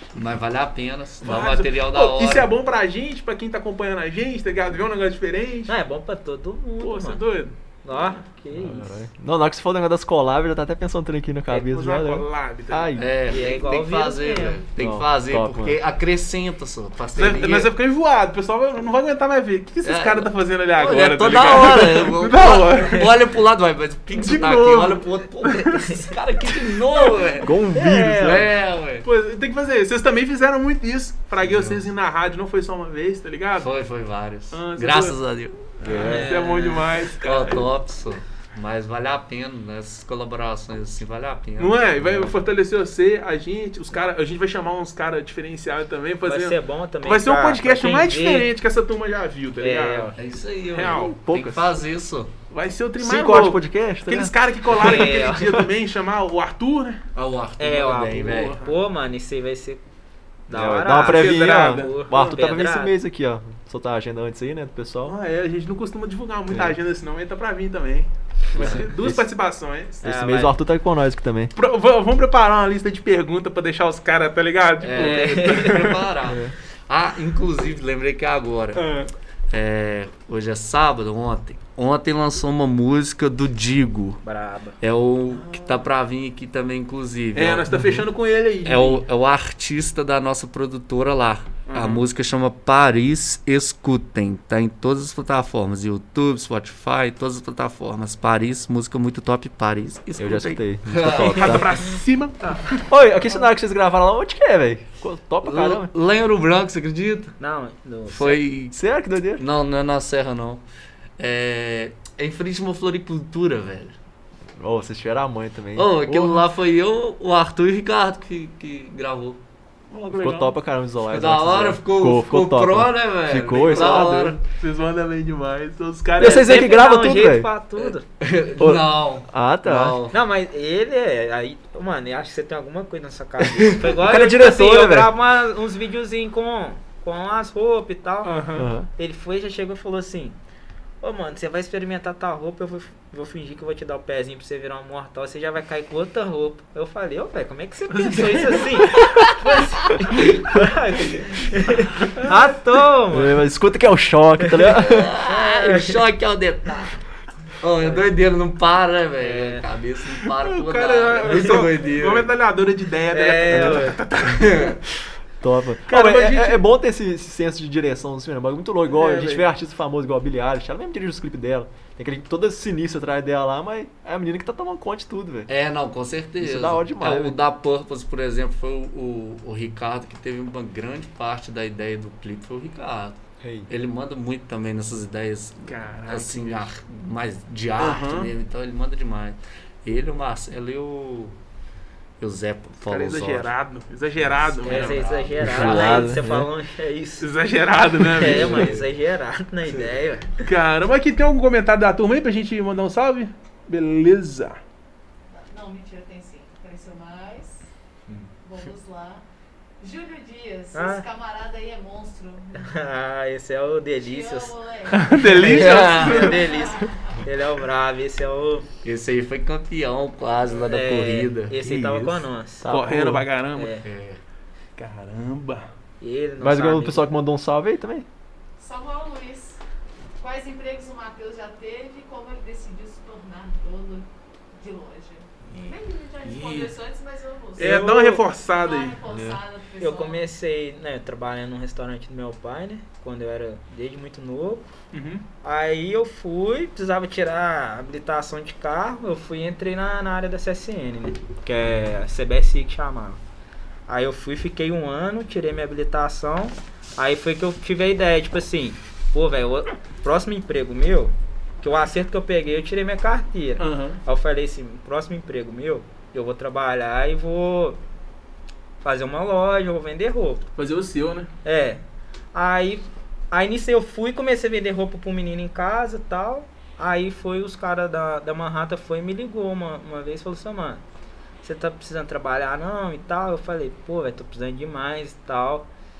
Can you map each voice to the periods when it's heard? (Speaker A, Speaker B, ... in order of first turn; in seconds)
Speaker A: 0.1-2.5, 13.0-17.7, 19.8-27.5, 28.2-29.1, 31.4-31.9, 33.6-36.1, 37.2-42.3, 50.2-52.3, 57.1-58.6, 68.5-68.8, 74.8-78.8, 79.5-84.2, 84.8-87.8, 88.7-101.7, 105.4-107.4, 108.1-108.8, 109.4-110.7, 111.2-114.0, 115.8-119.4, 121.1-124.4, 127.8-130.2, 154.6-157.0, 157.6-162.3, 164.2-164.8, 175.5-191.4, 192.2-193.5, 194.3-196.2, 215.4-216.3, 218.8-221.6, 223.8-224.2
Speaker B: 1.2-5.7, 6.8-7.5, 11.5-13.4, 17.2-23.1, 24.1-25.9, 29.0-33.7, 34.5-35.2, 35.8-37.6, 41.6-50.1, 50.7-51.1, 52.5-57.0, 58.1-58.7, 61.0-62.4, 65.1-70.0, 71.6-76.0, 78.8-79.1, 85.3-85.8, 87.3-89.0, 91.7-92.1, 101.1-102.8, 119.9-120.5, 123.6-126.5, 138.2-138.7, 147.9-148.8, 160.4-164.8, 165.9-166.6, 168.9-169.5, 185.7-186.7, 187.8-188.3, 192.8-195.1, 197.2-198.8, 200.4-204.6, 214.9-216.4, 222.7-223.7, 224.8-225.7, 236.3-236.7, 237.6-239.0, 244.9-245.2, 263.6-264.0, 270.6-271.3
Speaker C: 5.7-7.2, 7.8-9.0, 13.3-14.6, 27.8-28.3, 36.0-36.9, 46.2-48.5, 49.6-50.1, 54.8-55.5, 57.6-59.8, 60.5-63.0, 70.0-70.5, 75.0-75.9, 84.2-84.8, 102.4-102.8, 107.4-108.4, 126.3-128.0, 130.1-138.4, 139.0-140.4, 141.0-153.4, 154.4-154.7, 155.2-156.0, 159.2-159.7, 163.1-164.0, 194.7-197.3, 198.1-200.4, 210.7-211.1, 212.6-214.5, 215.2-218.7, 220.7-222.7, 223.6-223.9, 226.0-227.1, 237.6-238.2, 239.8-244.7, 245.4-253.2, 253.9-267.8, 268.8-270.4, 271.4-271.8, 272.3-280.8, 281.4-285.7
Speaker D: 8.5-13.1, 14.8-15.8, 27.4-28.5, 35.8-36.3, 50.9-51.8, 53.0-55.5, 60.5-65.2, 66.5-66.8, 68.5-69.3, 70.0-71.5, 76.3-76.5, 87.7-88.0, 100.2-101.8, 102.9-105.9, 108.7-109.4, 114.6-116.5, 120.2-124.4, 126.2-127.5, 128.6-130.0, 133.8-135.1, 138.6-138.9, 153.1-155.1, 163.5-163.9, 165.4-175.5, 176.4-177.4, 183.4-183.7, 195.4-196.5, 198.2-198.8, 221.6-223.3, 226.4-228.1, 239.1-239.4
Speaker E: 205.3-207.7, 208.4-209.2, 209.8-212.8, 214.0-215.2, 216.2-217.2, 228.6-229.6, 230.2-237.9, 238.5-240.2